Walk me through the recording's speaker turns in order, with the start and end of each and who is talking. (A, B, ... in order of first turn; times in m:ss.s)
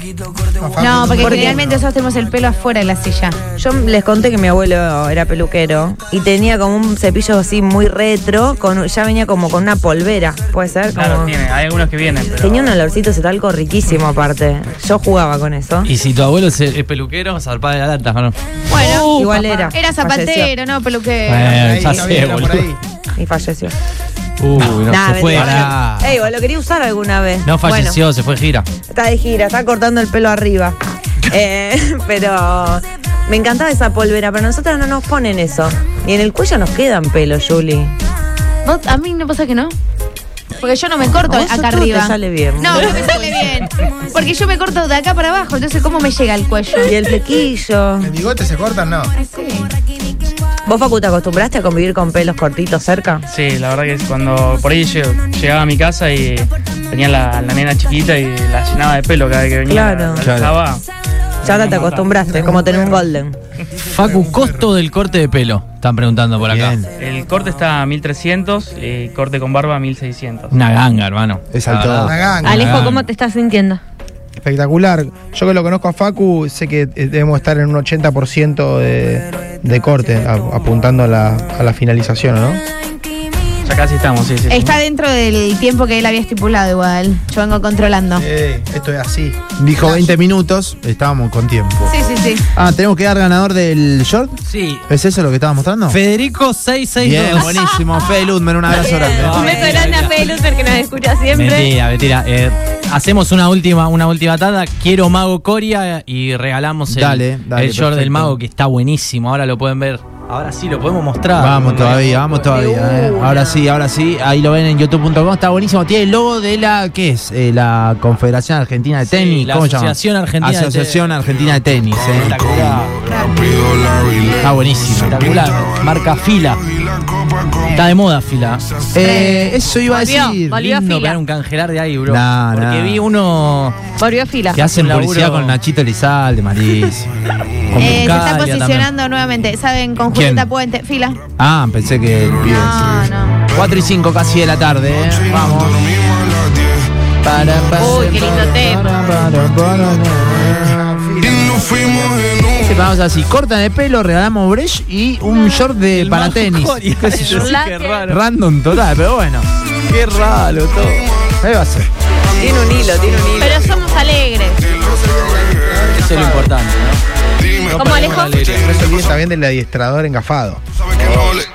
0:00.6-0:01.9 A
0:00.8-0:03.4 B
0:01.2-0:01.7 C
0:03.6-0:11.3 C
0:10.9-0:12.8 D
0:12.4-0:15.9 C
0:15.8-0:18.3 E
0:18.7-0:19.7 F
0:18.7-0:21.6 B
0:19.1-0:20.5 C
0:21.3-0:22.7 E
0:21.4-0:22.8 A
0:23.2-0:23.7 C
0:24.4-0:25.7 E
0:24.6-0:26.1 G
0:24.9-0:28.0 C
0:27.4-0:28.7 E
0:28.9-0:30.8 C
0:31.3-0:37.9 C
0:38.6-0:39.7 B
0:40.6-0:47.0 B
0:41.2-0:43.2 C
0:46.9-0:48.1 C
0:48.0-0:49.1 A
0:49.2-0:49.7 B
0:50.6-0:53.2 C
0:53.3-1:00.8 D
0:59.7-1:00.3 C
1:00.2-1:00.6 G
1:01.4-1:02.3 D
1:01.4-1:03.4 C
1:02.2-1:03.1 A
1:03.8-1:06.8 E
1:04.0-1:04.7 A
1:06.4-1:06.9 G
1:07.0-1:10.6 D
1:10.5-1:13.0 E
1:11.5-1:12.9 G
1:12.0-1:12.9 A
1:12.4-1:13.8 F
1:14.4-1:22.6 A
1:23.6-1:24.8 D
1:24.5-1:28.2 B
1:28.2-1:30.1 A
1:29.6-1:31.9 G
1:31.8-1:32.4 B
1:32.5-1:36.0 G
1:34.4-1:34.8 E
1:35.9-1:37.5 E
1:37.0-1:39.5 G
1:38.8-1:39.8 C
1:38.8-1:41.7 F
1:39.2-1:40.3 E
1:41.3-1:52.3 E
1:46.9-1:48.4 G
1:51.3-2:02.8 G
1:52.7-1:53.2 B
1:59.0-2:01.0 E
2:02.1-2:03.2 E
2:03.2-2:04.4 B
2:04.2-2:05.3 G
2:05.0-2:06.6 E
2:07.6-2:08.7 E
2:08.9-2:10.6 G
2:09.0-2:09.5 B
2:09.9-2:11.2 F
2:10.5-2:13.8 E
2:12.1-2:13.0 G
2:14.0-2:14.6 F
2:14.5-2:15.6 E
2:14.5-2:17.1 G
2:17.7-2:18.4 G
2:17.7-2:18.9 E
2:17.8-2:21.2 B
2:20.1-2:20.5 G
2:21.4-2:26.0 G
2:22.4-2:23.4 B
2:27.2-2:37.5 G
2:27.8-2:28.9 F
2:27.9-2:28.6 B
2:30.8-2:32.2 A
2:35.9-2:38.2 E
2:37.1-2:38.0 F
2:38.1-2:39.5 G
2:39.7-2:41.1 E
2:41.4-2:41.9 G
2:42.3-2:43.7 C
2:43.4-2:44.6 F
2:44.9-2:46.5 A
2:45.9-2:47.0 E
2:47.7-2:48.3 F
2:47.7-2:48.6 E
2:48.4-2:50.6 A
2:51.0-2:51.3 C